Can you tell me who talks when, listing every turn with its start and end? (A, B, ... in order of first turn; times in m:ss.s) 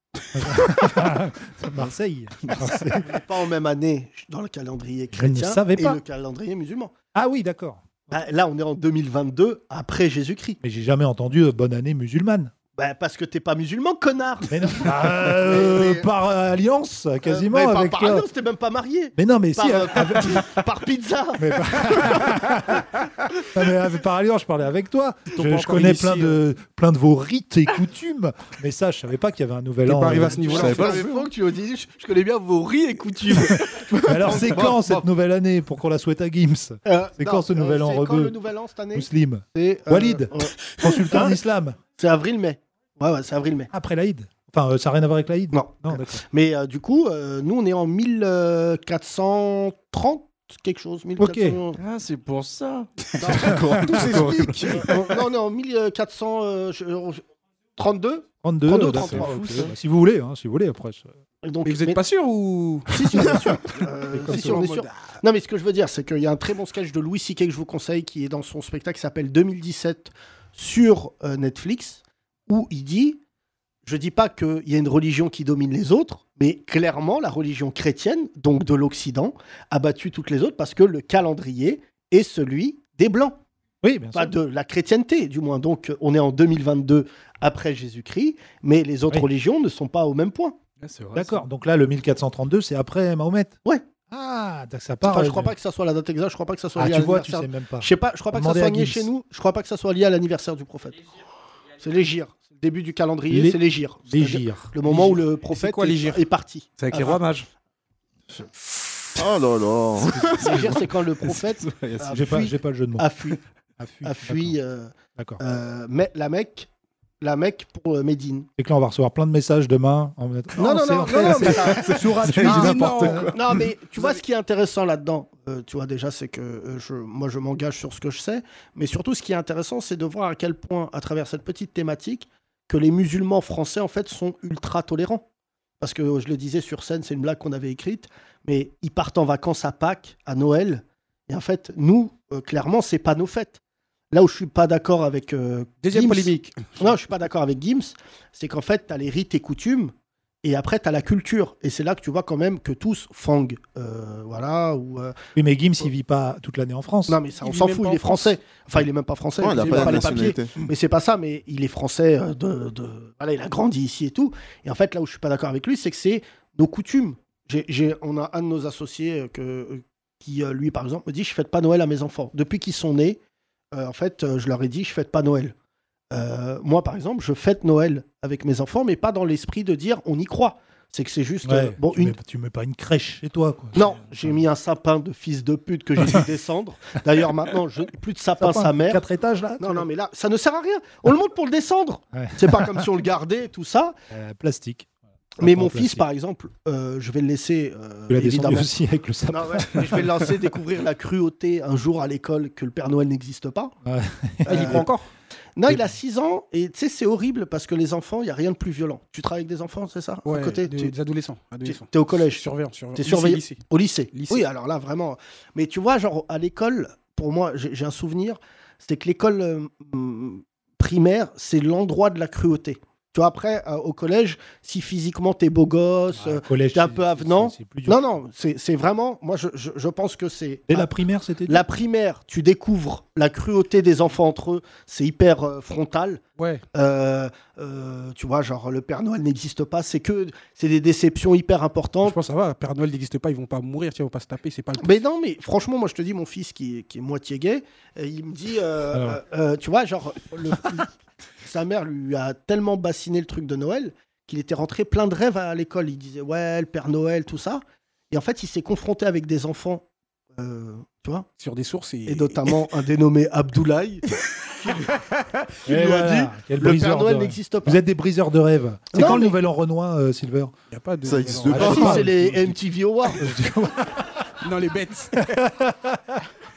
0:00.3-0:03.1 A
0:00.4-0:00.9 B
0:02.4-0:02.7 B
0:03.0-0:06.9 C
0:05.1-0:06.0 A
0:07.1-0:08.0 A
0:08.1-0:10.6 C
0:10.6-0:12.5 A
0:12.8-0:16.1 C
0:14.5-0:18.3 A
0:17.2-0:22.4 C
0:19.2-0:20.6 A
0:21.4-0:22.9 A
0:23.4-0:30.7 A
0:25.3-0:26.4 D
0:29.8-0:31.2 D
0:30.4-0:35.0 C
0:30.5-0:31.0 B
0:33.6-0:38.3 A
0:36.8-0:41.4 C
0:38.9-0:41.8 A
0:42.0-0:43.7 C
0:43.7-0:46.2 A
0:45.5-0:51.8 C
0:51.2-0:51.6 A
0:51.8-0:54.9 B
0:53.2-0:57.2 C
0:53.8-0:54.8 D
0:57.8-0:59.7 C
0:58.4-1:01.1 A
0:59.0-0:59.4 B
1:01.4-1:02.0 C
1:01.6-1:03.3 D
1:02.9-1:13.2 C
1:04.1-1:04.6 A
1:04.2-1:05.2 D
1:13.8-1:23.4 C
1:23.8-1:24.4 A
1:24.1-1:30.6 C
1:30.8-1:31.4 B
1:31.1-1:33.6 A
1:34.1-1:35.5 A
1:35.0-1:41.0 C
1:36.8-1:39.1 A
1:41.8-1:47.2 C
1:43.3-1:44.7 A
1:44.8-1:46.2 D
1:46.8-1:47.5 B
1:49.2-1:50.6 E
1:50.1-1:52.2 B
1:50.4-1:53.4 C
1:52.1-1:53.1 A
1:53.8-1:54.6 A
1:54.0-1:56.7 C
1:57.2-1:58.5 C
1:58.6-2:03.4 A
2:00.6-2:15.2 C
2:01.5-2:03.4 B
2:02.5-2:03.3 D
2:15.8-2:23.6 C
2:24.1-2:35.2 C
2:25.8-2:26.9 D
2:35.4-2:37.2 A
2:37.1-2:53.2 C
2:37.4-2:38.4 D
2:39.4-2:40.5 E
2:39.6-2:40.1 D
2:53.7-2:55.5 C
2:56.1-3:02.2 C
3:01.4-3:04.3 A
3:03.7-3:09.0 C
3:08.4-3:09.9 A
3:09.6-3:14.0 C
3:12.1-3:12.8 A
3:14.1-3:16.0 A
3:15.4-3:18.7 C
3:18.1-3:20.1 A
3:19.3-3:23.7 C
3:23.8-3:24.9 A
3:24.4-3:24.9 C
3:24.5-3:25.1 D
3:25.6-3:30.9 C
3:25.7-3:25.9 A
3:30.2-3:34.4 D
3:31.6-3:50.9 C
3:46.1-3:48.0 A
3:50.7-3:51.6 A
3:51.5-3:56.2 C
3:56.4-3:56.6 D
3:56.7-4:02.2 C
4:02.0-4:05.0 D
4:04.8-4:10.9 C
4:08.9-4:09.2 A
4:11.4-4:19.8 C
4:20.4-4:21.3 C
4:21.4-4:22.6 D
4:22.0-4:24.9 C
4:25.6-4:27.8 C
4:25.6-4:30.5 A
4:28.9-4:29.4 C
4:30.7-4:32.6 D
4:31.0-4:32.0 E
4:31.4-4:32.1 A
4:31.5-4:33.3 C
4:33.2-4:34.3 A
4:34.4-4:35.3 D
4:35.2-4:36.2 A